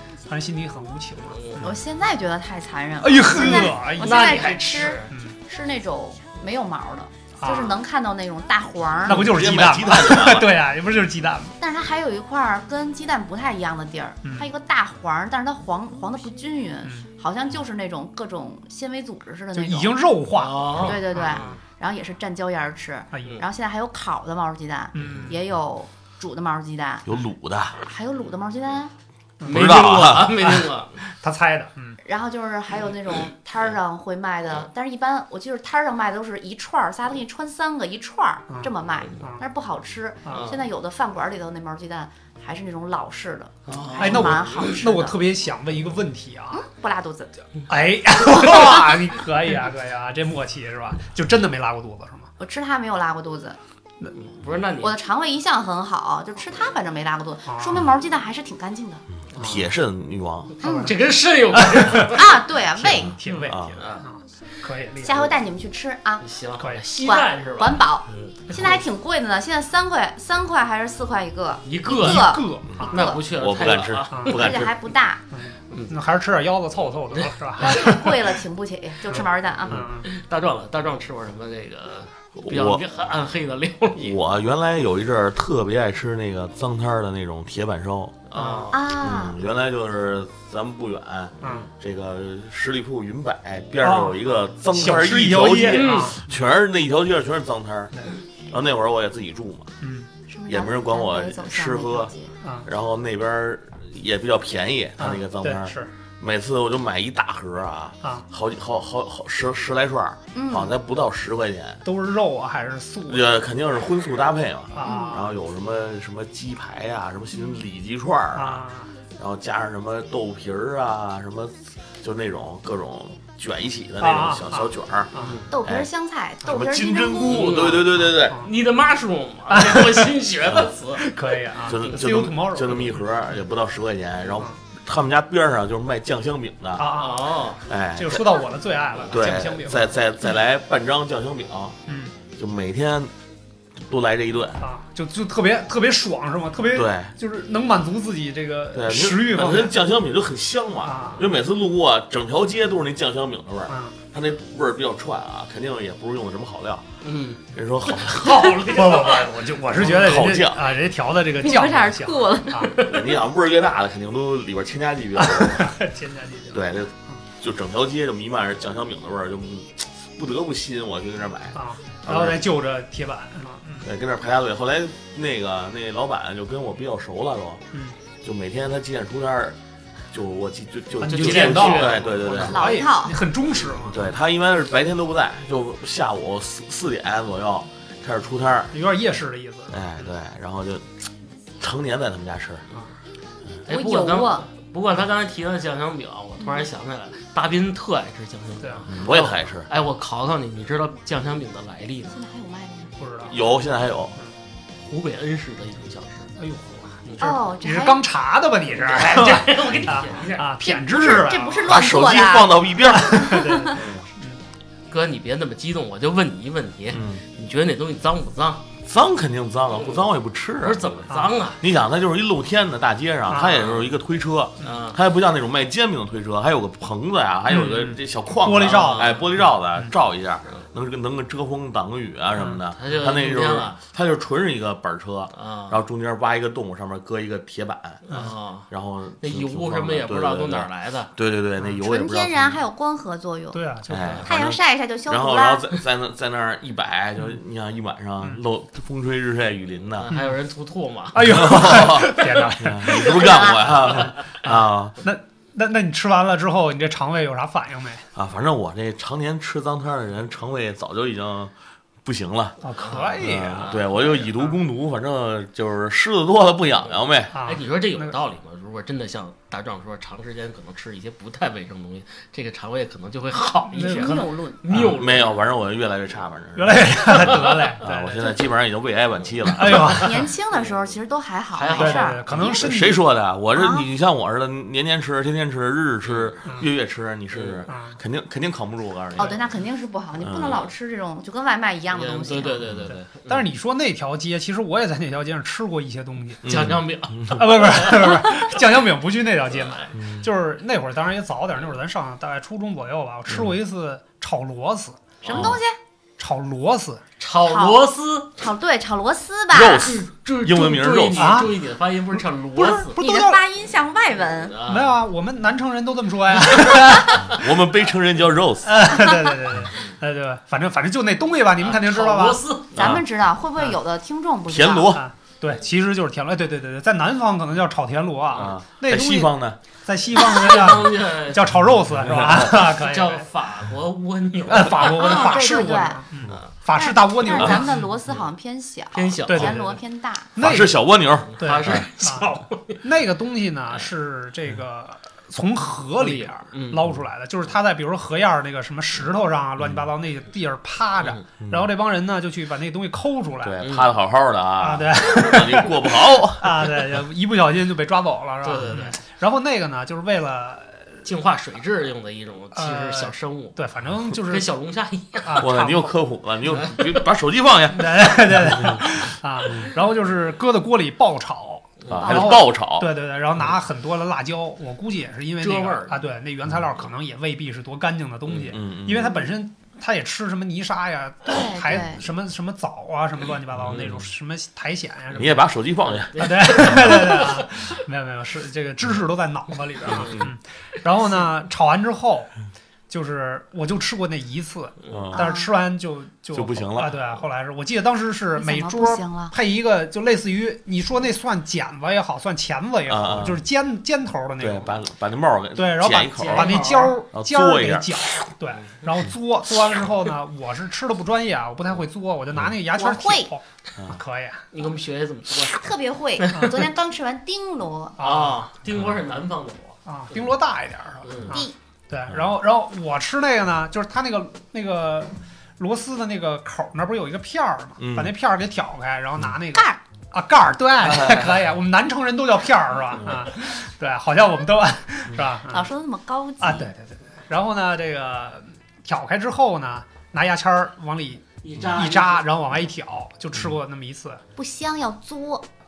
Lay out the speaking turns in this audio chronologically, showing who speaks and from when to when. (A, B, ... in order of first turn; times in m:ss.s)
0:00.3-0:01.8 A
0:01.3-0:01.6 B
0:01.6-0:09.3 C
0:03.0-0:04.5 A
0:03.4-0:05.1 B
0:05.1-0:05.4 A
0:07.4-0:07.8 A
0:09.0-0:11.5 A
0:09.1-0:10.5 D
0:11.6-0:20.0 C
0:19.5-0:21.6 A
0:20.3-0:21.6 B
0:20.8-0:27.0 C
0:23.1-0:23.4 A
0:24.9-0:25.3 A
0:25.0-0:25.3 B
0:27.1-0:27.8 D
0:27.8-0:28.9 C
0:29.4-0:29.7 A
0:29.4-0:31.0 B
0:29.5-0:30.3 D
0:30.4-0:32.0 A
0:32.0-0:45.2 C
0:38.5-0:39.4 A
0:40.2-0:40.5 A
0:40.3-0:40.6 B
0:43.7-0:44.7 B
0:44.0-0:46.6 A
0:46.5-0:47.3 C
0:47.7-0:52.3 A
0:52.4-0:53.6 C
0:54.2-0:55.0 B
0:54.8-0:59.0 C
0:57.5-0:57.8 A
0:59.3-1:00.6 D
0:59.4-0:59.7 A
1:00.6-1:00.9 C
1:00.6-1:01.0 A
1:00.6-1:02.4 B
1:01.5-1:02.2 A
1:02.0-1:03.2 C
1:02.7-1:05.3 A
1:03.3-1:04.1 B
1:03.4-1:03.8 D
1:05.0-1:06.2 C
1:06.2-1:08.8 B
1:07.0-1:13.2 C
1:11.6-1:14.7 B
1:12.0-1:13.0 A
1:12.7-1:14.7 D
1:14.3-1:15.2 C
1:15.3-1:18.1 A
1:15.7-1:16.0 B
1:17.1-1:17.7 B
1:17.6-1:19.9 C
1:19.1-1:20.1 A
1:19.6-1:24.2 B
1:22.4-1:22.8 D
1:24.0-1:28.3 D
1:28.3-1:28.8 B
1:28.4-1:28.7 A
1:28.7-1:29.4 C
1:28.9-1:37.9 D
1:31.4-1:31.7 A
1:33.8-1:36.3 A
1:35.6-1:36.2 B
1:38.5-1:39.7 D
1:39.8-1:40.1 A
1:40.3-1:42.3 C
1:40.5-1:42.1 D
1:42.4-1:42.7 A
1:42.6-1:51.8 D
1:45.0-1:45.9 A
1:50.3-1:50.7 C
1:51.8-1:53.3 A
1:53.1-1:58.6 D
1:54.7-1:55.3 A
1:54.8-1:55.3 C
1:58.4-1:58.9 A
1:59.2-2:05.1 D
2:04.0-2:05.4 A
2:05.2-2:05.5 B
2:05.5-2:07.8 C
2:06.4-2:08.4 D
2:07.3-2:12.0 B
2:09.5-2:10.1 A
2:10.4-2:10.7 D
2:11.0-2:13.0 A
2:11.6-2:17.0 D
2:16.8-2:17.3 A
2:16.9-2:17.6 B
2:17.7-2:18.2 D
2:18.0-2:19.9 A
2:19.1-2:21.8 D
2:21.9-2:22.2 A
2:22.4-2:23.1 D
2:23.8-2:24.6 D
2:24.6-2:29.7 A
2:26.7-2:27.1 D
2:28.7-2:36.9 D
2:30.8-2:31.2 A
2:37.0-2:39.9 B
2:37.5-2:38.6 D
2:38.2-2:42.8 A
2:39.8-2:40.8 D
2:41.4-2:42.7 C
2:42.7-2:43.1 B
2:42.8-2:45.8 D
2:45.2-2:46.6 A
2:46.5-2:52.4 D
2:51.6-2:53.9 A
2:53.8-2:57.6 D
2:58.2-2:59.6 D
3:00.1-3:02.7 D
3:01.0-3:04.1 A
3:01.0-3:02.6 B
3:02.4-3:03.2 C
3:03.8-3:08.7 D
3:08.7-3:09.8 A
3:09.7-3:11.1 D
3:11.6-3:12.6 D
3:13.7-3:22.2 B
3:13.7-3:14.5 C
3:18.6-3:18.9 A
3:18.9-3:19.7 D
3:22.1-3:23.0 C
3:23.0-3:23.4 A
3:23.3-3:24.2 D
3:24.9-3:26.3 B
3:26.4-3:31.7 A
3:27.2-3:28.0 C
3:28.7-3:30.5 B
3:30.6-3:33.8 C
3:31.6-3:34.0 D
3:32.9-3:34.4 A
3:34.9-3:38.6 B
3:36.9-3:37.2 D
3:38.9-4:02.6 D
3:39.8-3:41.6 B
3:41.1-3:41.4 A
3:43.3-3:43.7 A
3:43.5-3:43.9 B
3:44.6-3:45.0 B
3:47.5-3:49.1 A
3:48.6-3:49.3 B
3:52.8-3:53.8 B
3:55.4-3:55.8 B
3:58.1-3:58.7 B
3:59.2-4:01.1 B
4:01.8-4:03.6 C
4:03.5-4:04.3 A
4:03.9-4:10.1 D
4:04.2-4:05.7 C
4:10.0-4:12.5 B
4:11.1-4:13.3 A
4:11.2-4:15.0 D
4:13.0-4:13.9 C
4:13.9-4:14.1 B
4:14.4-4:18.0 A
4:18.2-4:22.6 D
4:22.6-4:23.9 A
4:22.8-4:24.1 B
4:23.2-4:27.4 D
4:27.3-4:28.2 A
4:27.4-4:35.4 B
4:33.7-4:34.6 C
4:33.8-4:34.9 A
4:34.7-4:40.1 D
4:36.6-4:38.3 A
4:37.1-4:37.6 B
4:39.5-4:40.0 B
4:39.5-4:40.3 A
4:40.0-4:42.6 C
4:40.5-4:40.9 B
4:41.5-4:42.6 B
4:41.8-4:43.0 A
4:42.4-4:49.4 D
4:43.6-4:43.9 C
4:46.0-4:46.4 B
4:47.3-4:47.7 B
4:47.7-4:48.0 A
4:49.2-4:52.6 C
4:50.2-4:50.6 D
4:50.4-4:50.7 B
4:51.9-4:53.4 B
4:52.6-4:53.0 D
4:52.9-4:56.6 A
4:56.4-4:57.7 D
4:56.5-4:58.3 B
4:57.3-5:05.0 A
4:59.5-4:59.9 B
5:00.0-5:00.3 D
5:03.3-5:03.5 D
5:05.2-5:05.5 B
5:05.2-5:05.8 C
5:05.3-5:05.6 D
5:06.2-5:07.0 A
5:07.2-5:08.3 B
5:07.4-5:07.8 C
5:08.4-5:10.0 C
5:09.5-5:11.5 D
5:09.9-5:13.0 B
5:11.2-5:11.5 A
5:12.6-5:13.4 A
5:13.0-5:14.6 C
5:14.2-5:15.0 B
5:14.7-5:17.4 A
5:17.3-5:18.9 D
5:18.6-5:22.4 A
5:21.6-5:22.8 B
5:22.7-5:25.0 C
5:22.8-5:23.0 D
5:24.5-5:25.0 D
5:24.9-5:33.3 A
5:28.4-5:29.6 D
5:30.2-5:31.6 B
5:31.9-5:32.6 D
5:32.2-5:35.4 B
5:34.5-5:37.8 A
5:34.8-5:36.0 C
5:36.7-5:40.3 C
5:37.3-5:38.2 B
5:38.9-5:39.8 B
5:39.3-5:39.6 A
5:40.4-5:40.8 A
5:40.4-5:41.9 D
5:41.3-5:42.8 B
5:41.4-5:53.6 A
5:46.0-5:46.9 B
5:49.6-5:49.9 D
5:51.4-5:51.7 D
5:53.4-5:56.8 D
5:53.6-5:53.9 B
5:54.6-6:01.0 A
5:58.4-5:59.0 B
6:01.0-6:03.6 B
6:02.6-6:04.5 A
6:04.2-6:05.5 B
6:05.2-6:06.0 A
6:05.4-6:09.0 D
6:06.6-6:06.9 B
6:07.7-6:25.4 A
6:11.8-6:12.2 B
6:11.9-6:12.9 D
6:15.4-6:16.0 B
6:18.5-6:19.2 D
6:21.3-6:22.0 C
6:23.6-6:24.0 D
6:25.1-6:26.7 D
6:25.8-6:27.5 B
6:26.2-6:32.3 A
6:29.9-6:30.2 B
6:29.9-6:30.3 D
6:32.9-6:44.8 A
6:34.9-6:35.3 D
6:35.1-6:35.5 C
6:36.3-6:37.0 D
6:38.4-6:39.4 C
6:42.9-6:43.4 D
6:44.4-6:48.2 D
6:45.6-6:54.4 A
6:46.2-6:47.0 B
6:52.8-6:53.3 C
6:54.5-6:55.6 B
6:55.4-6:58.0 C
6:56.2-6:56.5 B
6:58.0-6:58.4 A
6:58.0-7:00.2 B
6:59.9-7:15.7 A
7:01.0-7:01.4 B
7:01.3-7:01.6 C
7:07.8-7:08.1 D
7:09.5-7:09.8 C
7:10.8-7:11.4 D
7:13.0-7:13.2 D
7:15.5-7:16.7 C
7:16.4-7:24.2 A
7:21.4-7:22.3 B
7:24.4-7:25.5 C